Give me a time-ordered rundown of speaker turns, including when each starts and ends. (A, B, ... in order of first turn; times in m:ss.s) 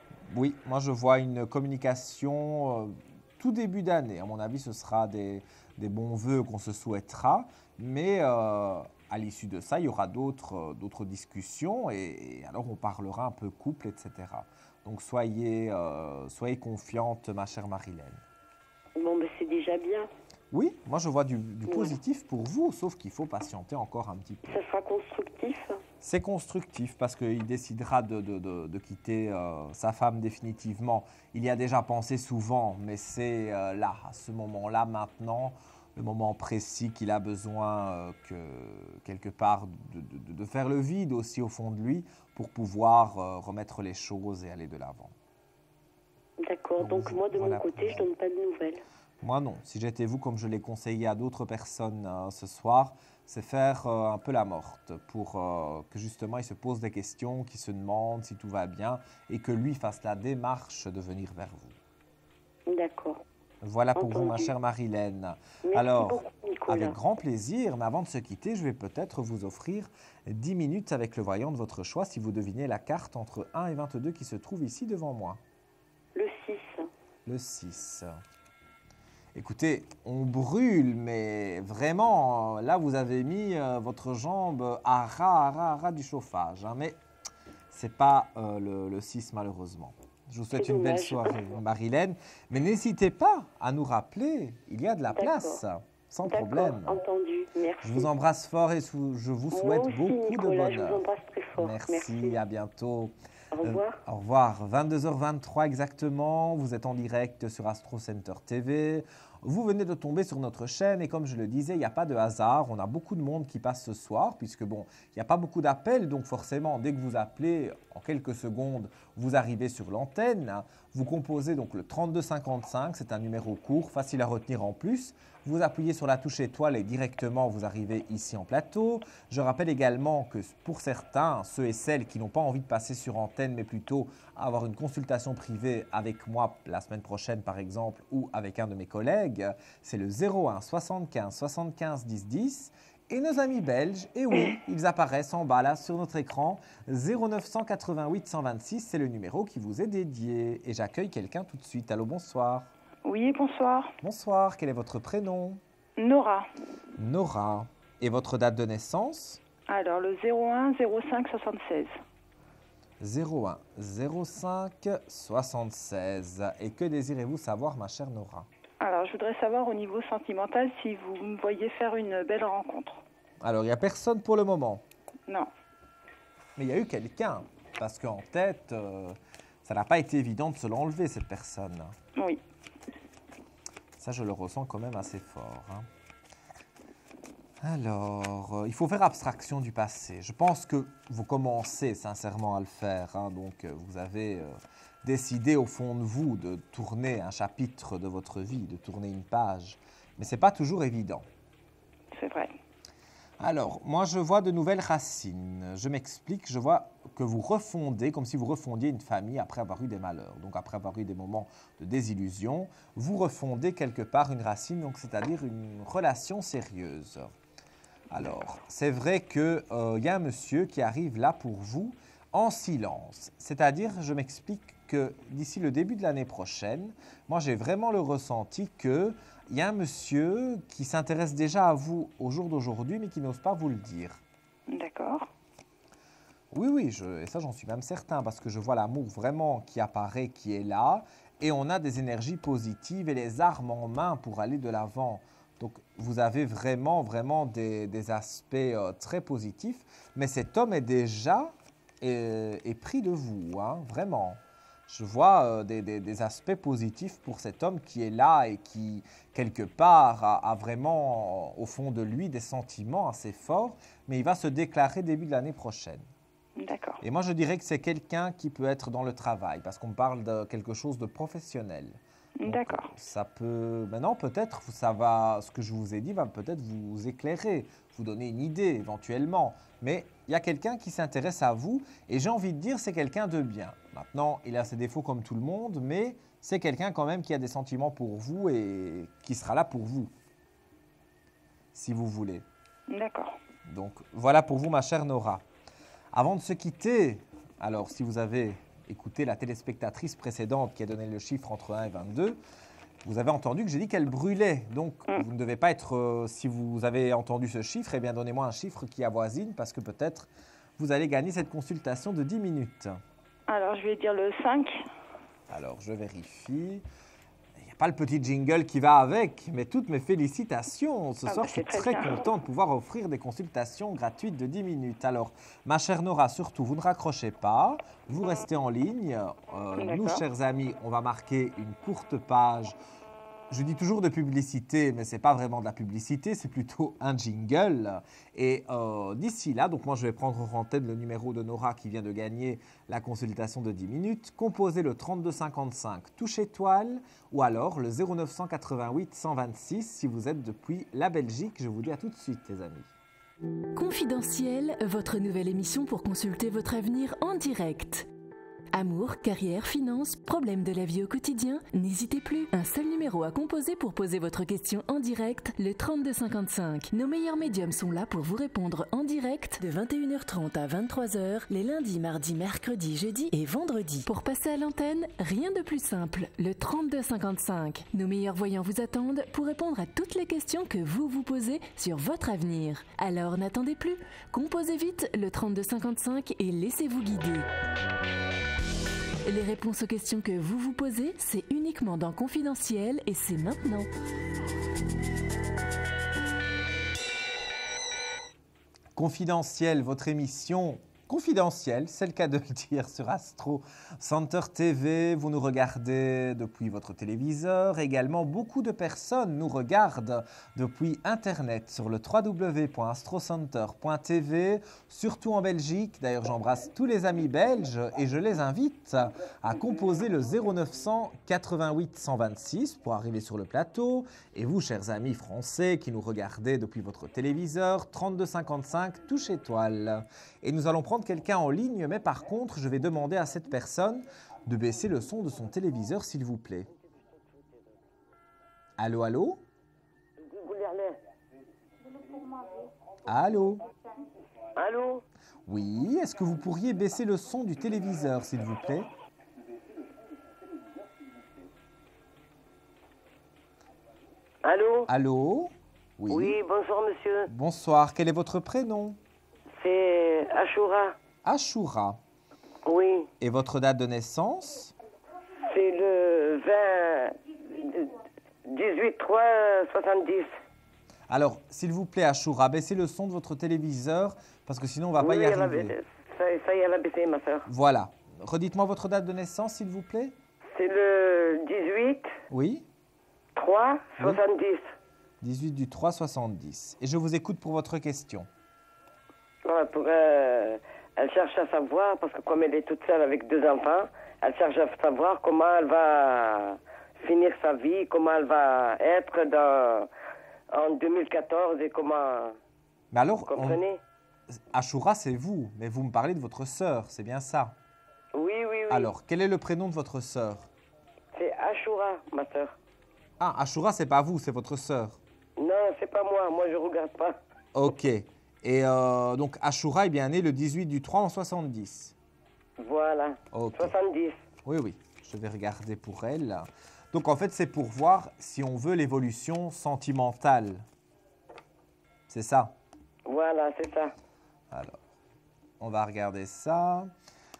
0:00.3-0:18.2 A
0:19.0-0:20.1 B
0:20.5-0:24.6 A
0:24.5-0:25.7 B
0:26.0-0:45.2 A
0:46.4-0:48.8 B
0:46.8-0:48.1 A
0:49.2-1:01.8 A
1:02.7-1:03.2 B
1:03.6-1:15.4 A
1:04.0-1:04.5 B
1:05.7-1:07.0 B
1:16.2-1:16.8 B
1:17.3-1:18.2 A
1:19.4-1:27.0 A
1:27.7-1:37.0 A
1:30.5-1:31.5 B
1:35.1-1:35.6 B
1:36.3-1:38.1 B
1:37.8-1:41.0 A
1:39.5-1:42.4 B
1:41.6-2:32.7 A
1:43.6-1:44.0 B
2:33.0-2:34.0 C
2:34.0-2:35.6 A
2:36.0-2:36.5 C
2:37.0-2:39.4 A
2:39.7-2:42.0 C
2:43.0-2:48.5 A
2:48.8-2:53.0 C
2:53.4-2:54.8 A
2:56.6-3:02.0 A
3:04.0-3:05.9 A
3:07.6-3:21.3 A
3:22.1-3:22.5 C
3:23.4-3:37.3 A
3:38.1-3:54.2 A
3:54.7-3:55.3 C
3:56.5-4:26.1 A
4:26.6-4:27.0 C
4:27.0-4:50.1 A
4:32.4-4:32.9 C
4:51.7-4:52.5 A
4:52.9-4:53.4 C
4:53.7-4:55.4 A
4:56.1-5:02.4 A
5:03.0-5:13.0 A
5:13.5-5:14.8 C
5:15.5-5:16.8 A
5:17.6-5:32.8 A
5:21.2-5:22.3 C
5:29.8-5:30.2 C
5:33.5-5:52.9 A
5:53.8-5:58.1 D
5:58.7-6:27.5 D
6:29.2-6:33.9 D
6:39.0-7:16.7 A
7:18.8-7:19.4 A
7:20.2-7:21.0 E
7:23.1-7:23.6 A
7:24.6-7:25.0 E
7:25.5-7:28.9 A
7:34.4-7:34.9 E
7:34.9-7:36.4 A
7:36.1-7:37.3 E
7:37.3-7:39.0 A
7:39.6-7:41.0 E
7:41.2-7:42.0 A
7:42.6-7:43.1 E
7:43.2-7:44.7 A
7:45.5-7:47.9 E
7:48.5-7:50.4 E
7:51.1-7:55.8 A
7:55.0-7:57.5 E
7:57.5-8:00.2 A
8:00.5-8:02.1 E
8:02.3-8:02.7 A
8:03.4-8:04.8 E
8:05.2-8:08.3 A
8:09.4-8:19.9 E
8:20.5-8:22.4 E
8:22.9-8:23.6 A
8:23.3-8:23.8 E
8:24.3-8:27.6 A
8:28.1-8:28.9 E
8:28.7-8:30.5 A
8:31.1-8:32.6 E
8:33.2-8:35.0 A
8:35.4-8:37.2 E
8:37.6-8:42.0 A
8:42.6-8:44.2 E
8:43.3-8:43.7 A
8:44.4-8:50.7 A
8:52.1-8:52.6 A
8:53.1-8:53.9 E
8:54.5-8:54.8 A
8:55.6-8:56.9 A